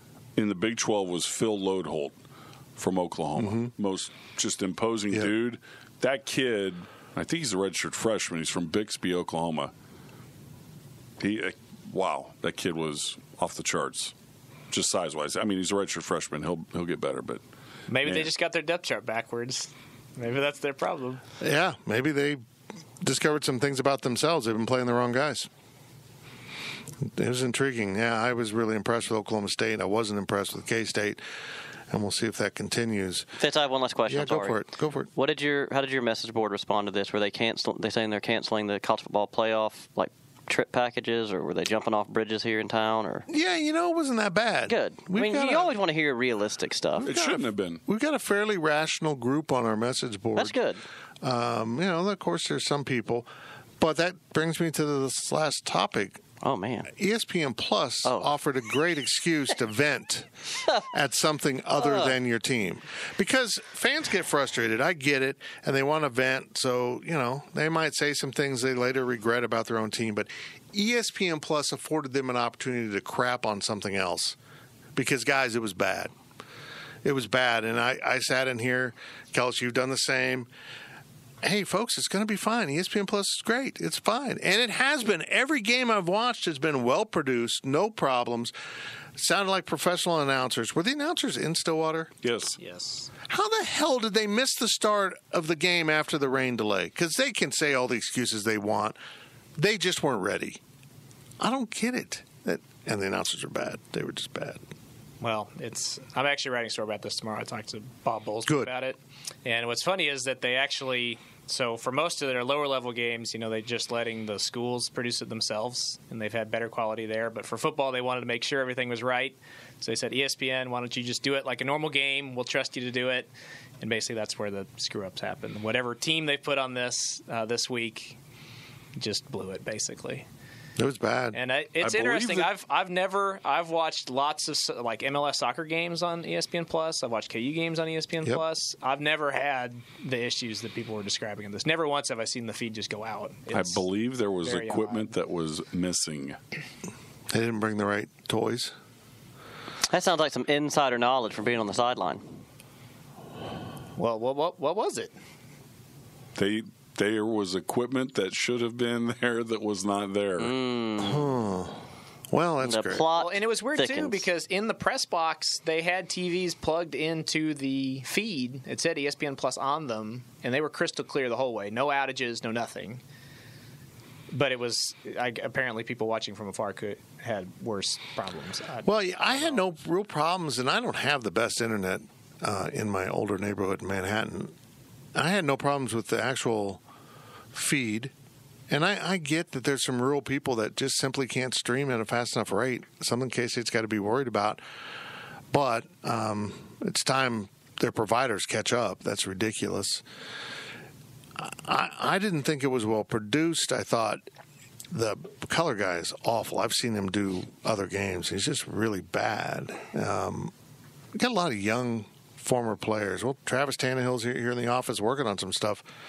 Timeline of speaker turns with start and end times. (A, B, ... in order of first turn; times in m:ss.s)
0:00.4-0:02.1 A
0:02.8-0:09.7 A
0:03.4-0:03.7 B
0:11.2-0:14.1 A
0:14.7-0:17.4 A
0:17.9-0:21.2 C
0:18.0-0:18.3 A
0:21.4-0:22.4 B
0:23.0-0:25.5 B
0:27.0-0:31.2 B
0:31.9-0:33.3 B
0:33.4-0:34.6 D
0:34.1-0:35.1 B
0:35.1-0:43.2 D
0:43.3-0:45.7 B
0:44.7-0:47.0 D
0:47.0-0:50.6 B
0:47.0-0:47.8 A
0:50.4-0:50.8 D
0:51.2-0:53.3 B
0:53.8-0:56.2 B
0:56.4-0:56.9 D
0:56.9-1:00.3 B
0:58.0-0:58.4 D
1:00.9-1:14.4 B
1:01.8-1:02.2 D
1:14.9-1:16.1 B
1:17.0-1:20.5 B
1:21.4-1:28.5 B
1:29.2-1:32.1 B
1:32.2-1:32.5 A
1:32.6-1:33.1 C
1:33.3-1:39.0 B
1:39.6-1:40.6 B
1:41.4-1:44.6 B
1:45.2-2:08.2 C
1:48.4-1:48.7 B
2:09.0-2:10.2 C
2:10.8-2:11.4 B
2:11.3-2:23.8 C
2:11.8-2:12.5 A
2:23.5-2:26.4 A
2:24.4-2:25.1 C
2:27.3-2:28.7 B
2:29.9-2:32.4 D
2:34.0-2:35.1 C
2:36.4-2:40.5 A
2:40.4-2:41.3 D
2:41.0-2:43.1 B
2:42.6-2:44.2 D
2:43.2-2:53.0 C
2:54.3-2:59.6 C
2:58.8-3:04.5 B
3:05.1-3:06.8 B
3:07.5-3:08.1 B
3:08.7-3:14.6 B
3:15.5-3:20.0 B
3:21.4-3:24.2 B
3:24.9-3:30.5 B
3:31.1-3:35.9 B